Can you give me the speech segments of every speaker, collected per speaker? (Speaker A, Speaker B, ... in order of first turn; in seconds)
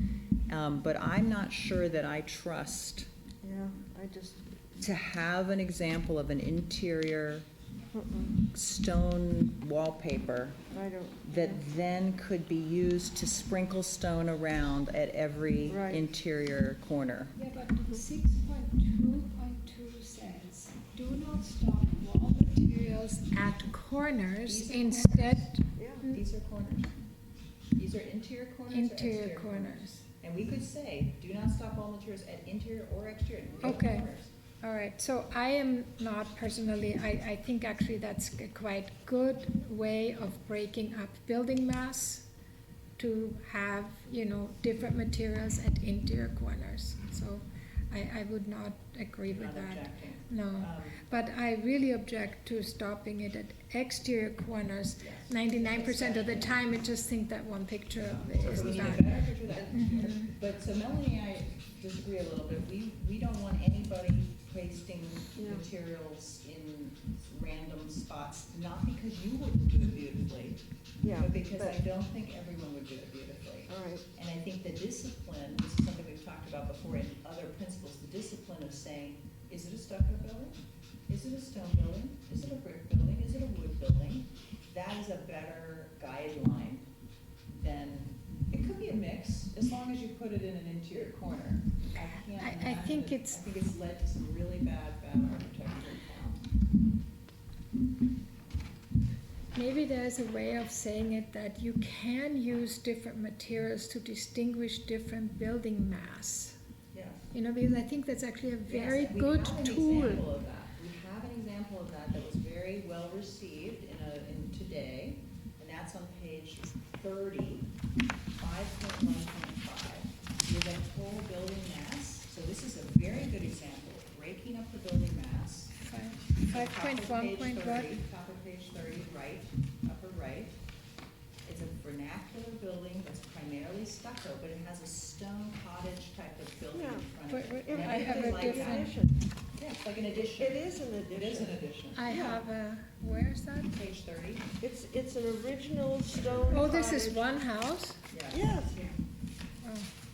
Speaker A: 0.5-3.1, 4.8-7.5, 8.5-10.6, 11.2-17.3, 24.4-26.9, 27.8-34.3, 49.3-51.0, 55.0-56.6, 58.4-70.6, 71.2-80.6, 81.1-86.8, 87.5-96.4, 106.9-107.2, 108.7-117.7, 118.4-125.8, 126.4-130.6, 131.4-138.9, 139.6-142.2, 143.7-144.5, 146.1-146.4, 148.1-149.0
Speaker B: 3.4-4.4, 7.9-8.3, 10.7-11.6, 15.7-16.0, 25.8-26.0, 59.7-60.0, 65.4-65.6, 71.0-71.8, 73.7-74.0, 136.7-137.1, 137.6-139.2, 140.1-141.6, 142.1-142.4, 144.6-147.4, 148.3-148.7
Speaker C: 17.4-26.2, 28.7-30.0, 33.6-34.0, 34.6-42.3, 43.0-59.2, 59.7-60.3, 92.3-93.4, 99.5-106.6, 107.3-110.2, 125.8-127.9, 137.3-138.9, 141.9-143.7, 146.5-148.0, 149.6-149.9